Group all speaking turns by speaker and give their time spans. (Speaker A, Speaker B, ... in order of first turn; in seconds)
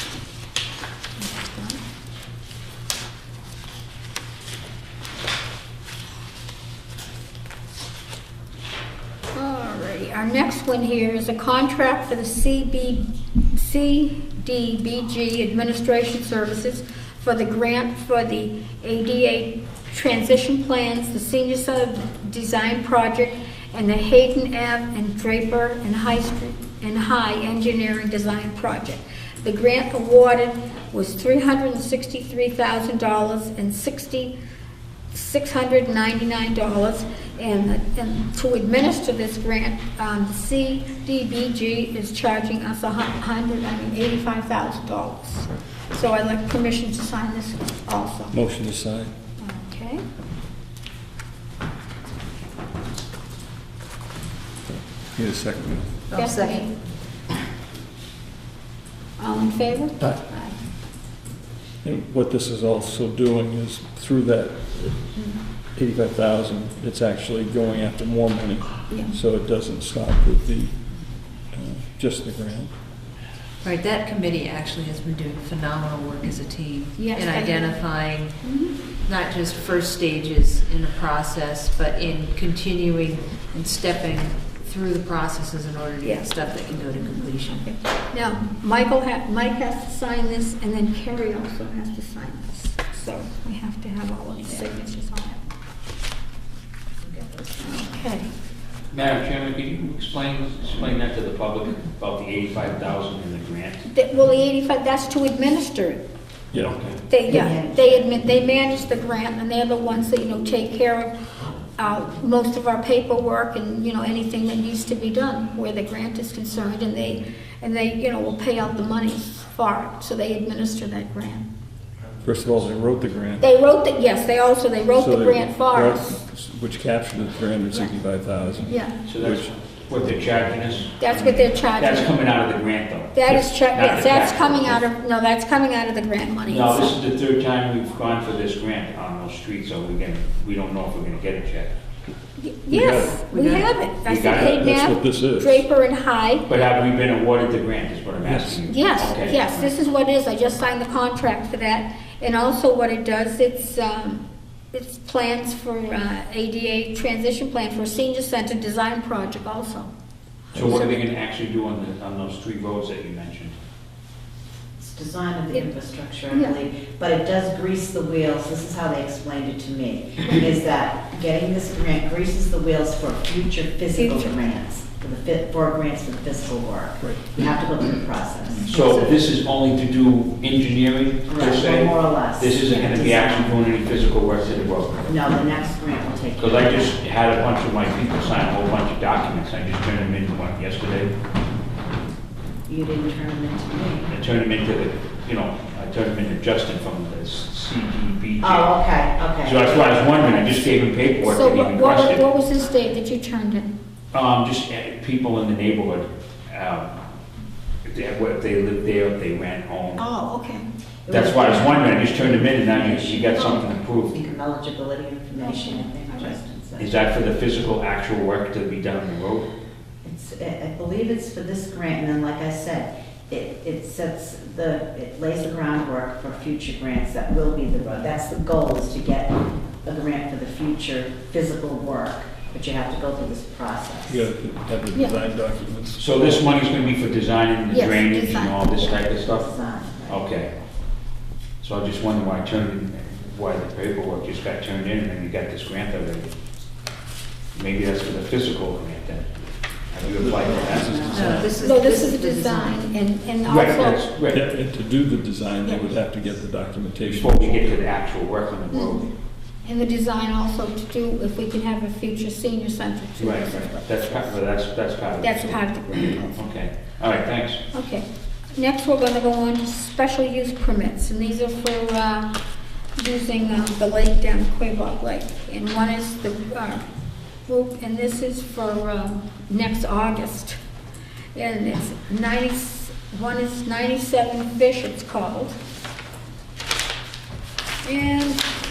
Speaker A: 1.2-1.8, 9.3-13.0, 13.5-34.3, 35.1-48.4, 49.4-50.0, 56.1-56.7, 59.2-60.6, 68.9-69.2, 77.0-77.8, 78.4-78.7, 86.0-86.3, 87.0-95.4, 97.6-98.3, 103.8-106.0, 107.1-111.1, 111.8-121.5, 123.4-126.2, 128.7-128.9, 131.0-132.1, 133.1-136.9, 142.4-146.5, 148.7-159.9, 160.6-161.0, 166.3-166.6, 173.9-174.3, 201.2-203.7, 210.0-210.6, 215.4-216.4, 234.9-235.2, 237.7-239.0, 251.6-254.1, 259.6-263.9, 265.2-266.4, 267.7-272.3, 273.0-276.8, 277.5-280.6, 281.3-285.6, 287.8-288.5
Speaker B: 48.3-49.1, 55.1-55.9, 61.8-64.9, 65.8-70.8, 71.5-72.7, 106.5-106.8, 122.2-123.5, 125.0-129.5, 133.3-133.6, 142.7-143.2, 144.3-145.6, 148.2-148.6, 234.1-236.3, 250.2-251.5, 254.3-257.6
Speaker C: 56.1-56.7, 73.6-78.4, 79.0-87.6, 143.2-143.7, 251.1-252.9
Speaker D: 98.9-103.8, 106.6-107.0, 129.1-134.8, 136.4-141.7, 144.0-144.5, 146.5-149.7, 160.5-163.6, 178.7-185.1, 186.4-191.1, 194.1-202.3, 204.1-207.0, 207.8-210.0, 211.1-214.2, 216.8-219.5, 236.0-239.5, 240.1-240.5, 241.6-246.3, 247.5-249.3, 249.9-251.1, 253.4-254.4, 257.1-259.1, 263.2-267.6
Speaker E: 107.3-107.9, 164.8-178.6, 181.3-183.5, 185.1-186.9, 192.7-194.1, 198.6-200.3, 211.1-216.8, 220.0-234.2, 239.2-240.1, 250.5-251.5